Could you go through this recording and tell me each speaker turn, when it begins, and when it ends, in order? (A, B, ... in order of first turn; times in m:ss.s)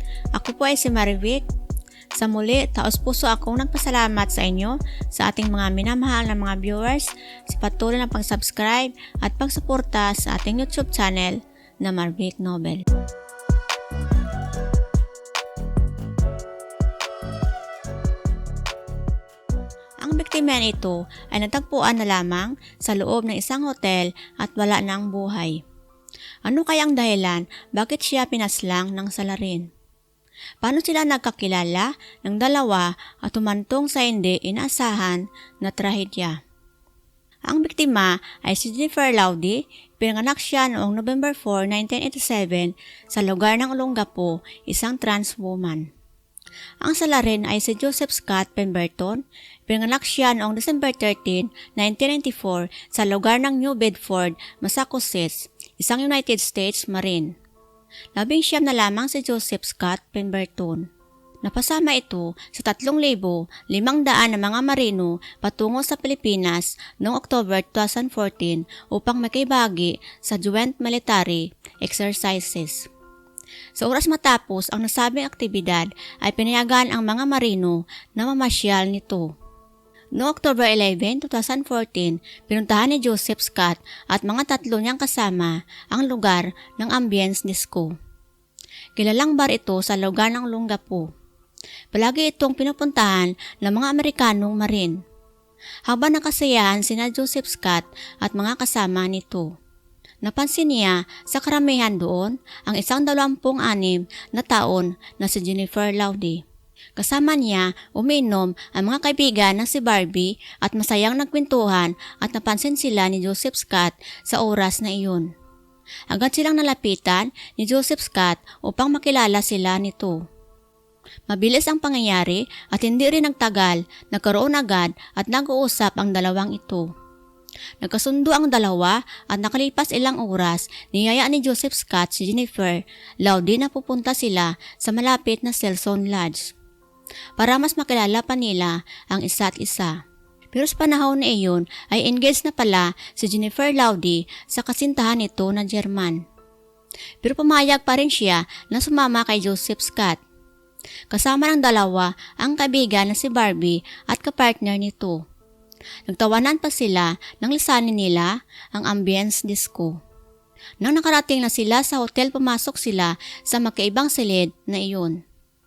0:00.3-0:01.4 A
0:02.1-0:12.8 A
0:20.0-0:25.6 A
0:26.4-0:29.7 A
0:30.6-0:36.4 A
0:37.5-0:45.9 A
0:46.8-0:57.3 A
0:58.1-1:00.8 A
1:01.4-1:12.9 A
1:13.7-1:19.3 A
1:20.2-1:27.9 A
1:29.0-1:31.1 A
1:31.9-1:35.0 A
1:35.9-1:39.5 A
1:40.2-1:46.4 A
1:47.0-1:55.3 A
1:56.1-2:00.2 A
2:01.3-2:06.9 A
2:07.8-2:16.5 A
2:17.4-2:20.0 A
2:20.5-2:26.2 A
2:27.2-2:30.2 A
2:31.1-2:35.2 A
2:36.0-2:40.0 A
2:40.8-2:45.2 A